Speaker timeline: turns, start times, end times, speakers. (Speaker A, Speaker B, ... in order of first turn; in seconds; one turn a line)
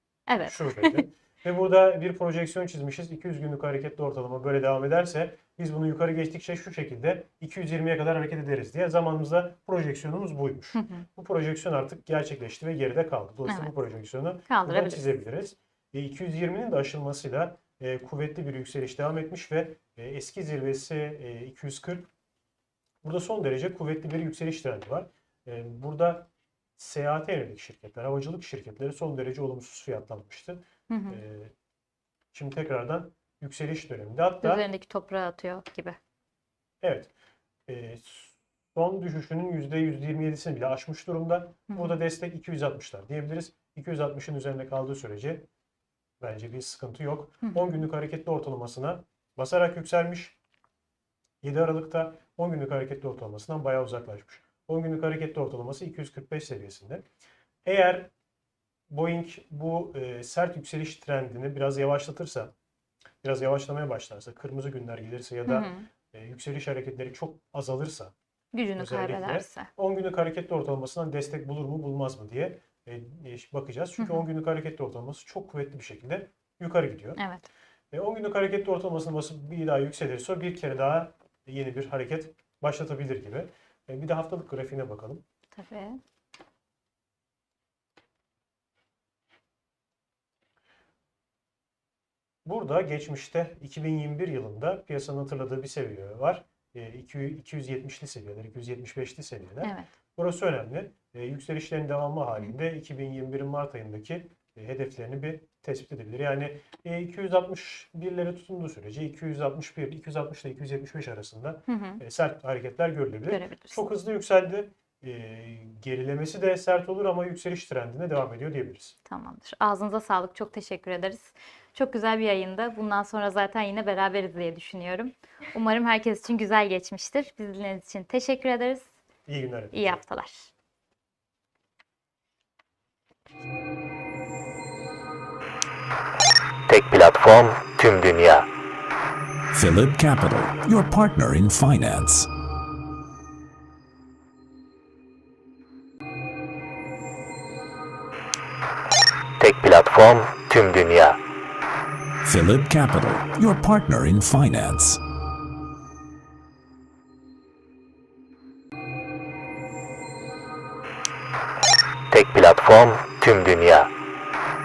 Speaker A: 0.3-1.0
Speaker B: 0.5-22.1
Speaker A: 10.7-11.1
Speaker A: 13.5-13.8
Speaker A: 14.5-15.1
Speaker B: 23.0-31.5
Speaker A: 30.9-31.2
Speaker B: 32.3-34.6
Speaker A: 34.4-36.0
Speaker B: 36.8-37.1
Speaker B: 37.7-45.5
Speaker A: 41.7-42.0
Speaker B: 46.2-50.4
Speaker A: 47.4-47.8
Speaker B: 51.4-57.0
Speaker B: 57.6-58.1
Speaker B: 58.9-62.5
Speaker B: 63.2-68.1
Speaker A: 65.5-65.9
Speaker A: 68.5-69.7
Speaker B: 68.8-77.2
Speaker A: 74.0-74.2
Speaker A: 77.2-77.5
Speaker B: 77.9-85.2
Speaker A: 85.5-86.0
Speaker B: 92.4-119.0
Speaker A: 99.6-99.9
Speaker A: 111.7-112.0
Speaker A: 113.3-113.8
Speaker A: 119.0-128.9
Speaker B: 129.2-130.0
Speaker A: 129.7-130.5
Speaker C: 136.7-138.5
Speaker D: 139.5-142.3
Speaker C: 149.4-151.2
Speaker D: 152.2-155.0
Speaker C: 162.1-163.9